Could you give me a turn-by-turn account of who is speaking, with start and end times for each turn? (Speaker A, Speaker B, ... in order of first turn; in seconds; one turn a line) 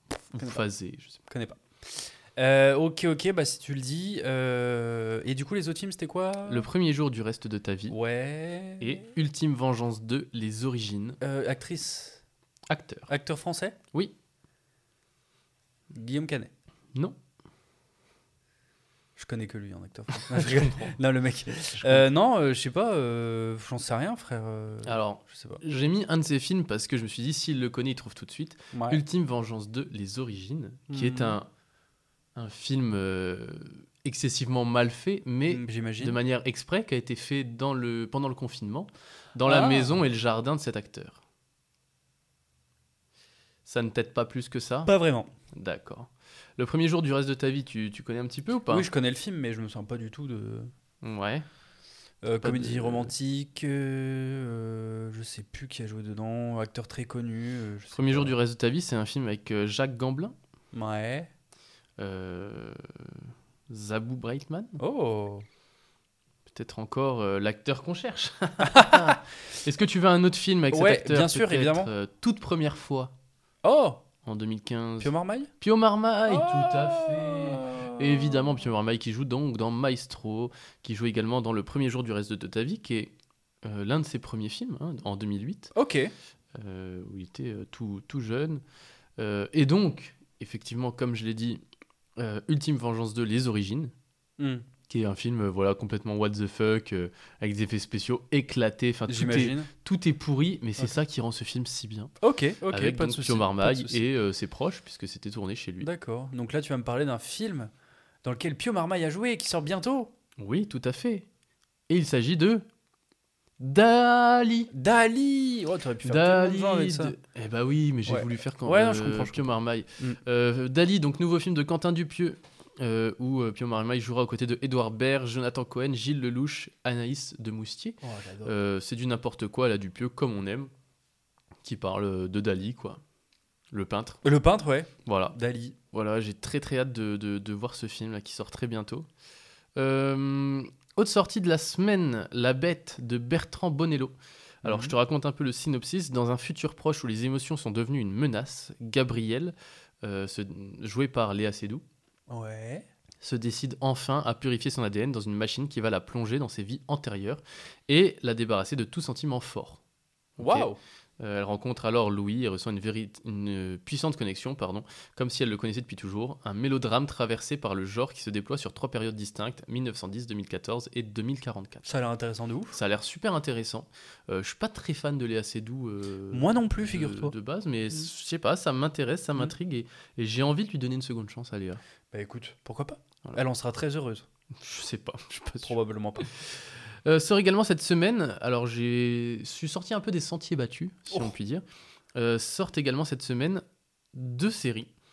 Speaker A: 0.3-1.2
Speaker B: 0.3-0.6
Speaker B: 1.3-6.7
Speaker A: 6.5-8.0
Speaker B: 7.9-9.0
Speaker A: 8.8-11.2
Speaker B: 11.2-12.2
Speaker A: 12.7-13.1
Speaker B: 13.1-13.8
Speaker B: 15.9-16.5
Speaker B: 19.1-25.6
Speaker A: 20.1-20.9
Speaker A: 21.7-22.1
Speaker A: 24.8-31.5
Speaker B: 28.7-29.0
Speaker B: 30.9-31.4
Speaker A: 32.3-41.2
Speaker B: 35.5-36.2
Speaker B: 39.4-40.0
Speaker A: 43.6-44.9
Speaker B: 44.9-45.3
Speaker A: 45.5-48.9
Speaker B: 48.7-50.7
Speaker A: 51.0-51.4
Speaker B: 52.2-58.3
Speaker A: 52.4-53.1
Speaker A: 57.9-60.3
Speaker B: 60.7-61.3
Speaker A: 62.0-64.8
Speaker B: 64.8-65.4
Speaker A: 66.5-73.1
Speaker B: 68.6-69.2
Speaker B: 70.7-71.9
Speaker B: 73.6-74.0
Speaker A: 74.2-85.7
Speaker B: 75.0-75.5
Speaker B: 76.3-78.4
Speaker B: 85.7-86.1
Speaker A: 86.5-88.6
Speaker A: 89.2-91.6
Speaker A: 92.2-93.9
Speaker B: 94.4-94.6
Speaker A: 94.9-102.1
Speaker B: 99.1-99.7
Speaker B: 102.2-104.0
Speaker A: 102.7-105.9
Speaker B: 105.8-107.7
Speaker B: 108.2-110.1
Speaker A: 110.4-111.2
Speaker A: 111.9-112.6
Speaker A: 113.6-114.7
Speaker B: 114.7-117.2
Speaker A: 116.0-130.7
Speaker B: 118.1-120.2
Speaker B: 128.0-128.5
Speaker A: 131.6-133.0
Speaker A: 133.7-134.2
Speaker B: 134.2-135.8
Speaker A: 135.0-135.3
Speaker A: 135.9-139.1
Speaker A: 139.8-151.8
Speaker B: 144.6-144.9
Speaker B: 152.3-152.8
Speaker A: 153.2-159.8
Speaker A: 160.4-160.7
Speaker B: 160.4-160.8
Speaker A: 161.2-171.8
Speaker B: 171.8-172.8
Speaker A: 172.7-181.8
Speaker B: 176.3-177.3
Speaker B: 182.1-184.2
Speaker A: 184.6-191.6
Speaker B: 185.6-186.3
Speaker A: 192.1-194.9